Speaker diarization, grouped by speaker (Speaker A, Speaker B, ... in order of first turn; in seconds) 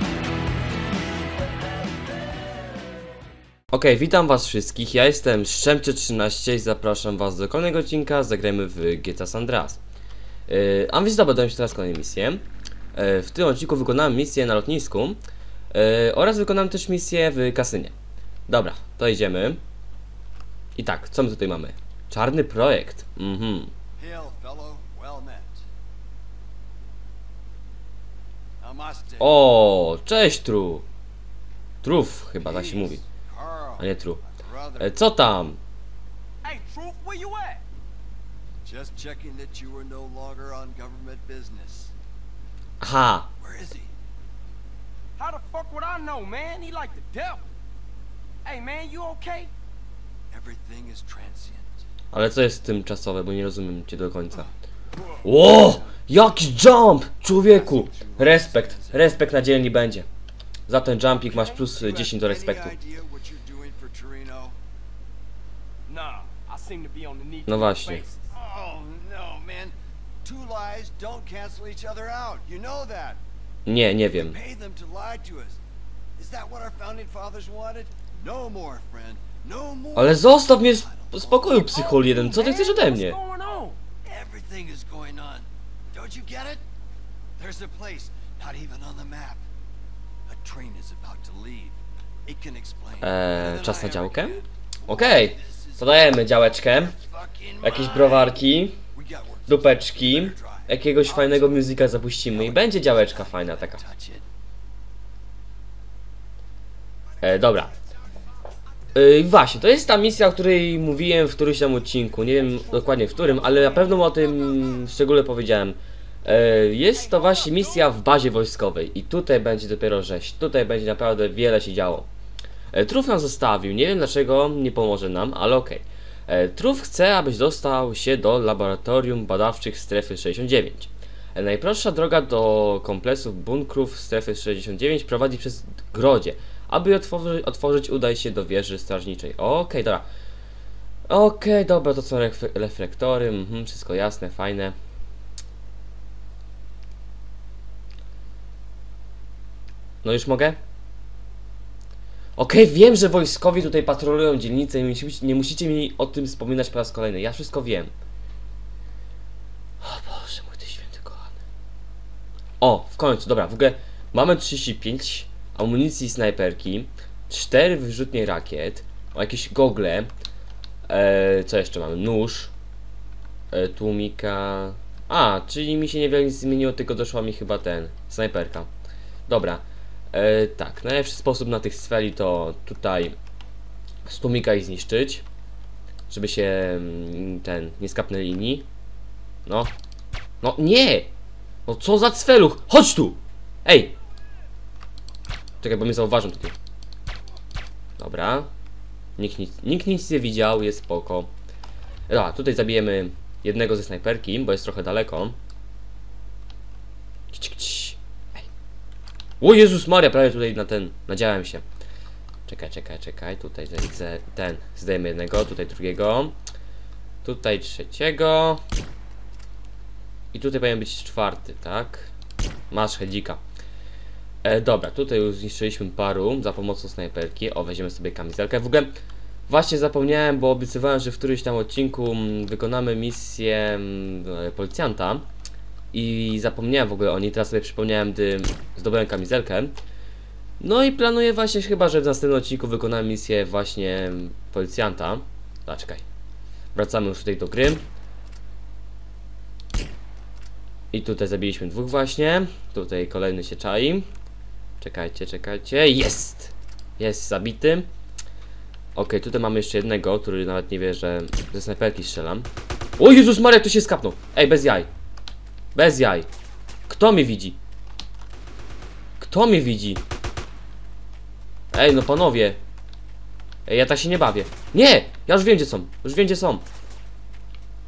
Speaker A: 3.7-9.8, 10.5-12.4, 12.9-15.2, 15.7-17.9, 18.5-19.6, 20.8-23.7, 29.2-30.8, 31.8-33.0, 33.8-34.2, 34.8-35.6, 42.8-43.3, 52.1-54.5, 55.2-60.0, 60.7-62.8, 67.5-68.0, 73.7-74.3, 80.0-83.2, 93.0-97.0, 97.6-98.8, 99.5-103.8, 107.2-107.7, 108.9-122.1, 122.7-140.1, 141.1-144.7, 150.0-150.6, 152.4-157.9, 159.8-161.3, 162.6-170.1, 170.9-172.5, 173.5-178.7, 179.3-183.1, 184.1-185.2, 186.1-188.7, 189.4-189.7, 190.4-191.1, 191.7-193.9, 195.6-196.5, 198.0-198.5, 199.2-201.3, 202.1-205.3, 207.3-208.5, 209.4-211.6, 212.5-216.3, 217.2-218.6, 220.3-222.1, 222.7-223.4, 224.4-228.9, 229.5-235.2, 235.9-239.7, 240.6-246.0, 246.7-247.8, 250.9-254.0, 254.8-257.9, 258.9-264.9, 265.7-266.3, 266.9-267.6, 269.2-270.0, 271.7-272.6, 273.6-276.6
Speaker B: 24.0-25.6, 28.6-29.4, 32.4-33.8, 34.3-34.9, 38.6-41.9, 43.4-43.9, 50.3-51.8, 55.2-55.9, 57.3-59.1, 61.7-64.5, 68.3-73.2, 74.1-75.6, 76.2-80.3, 80.8-81.8, 84.0-86.6, 87.4-89.4, 90.3-98.3, 98.9-101.7, 102.3-104.2
Speaker C: 36.4-37.6, 45.2-47.5, 48.4-49.5, 65.9-68.3, 81.9-83.8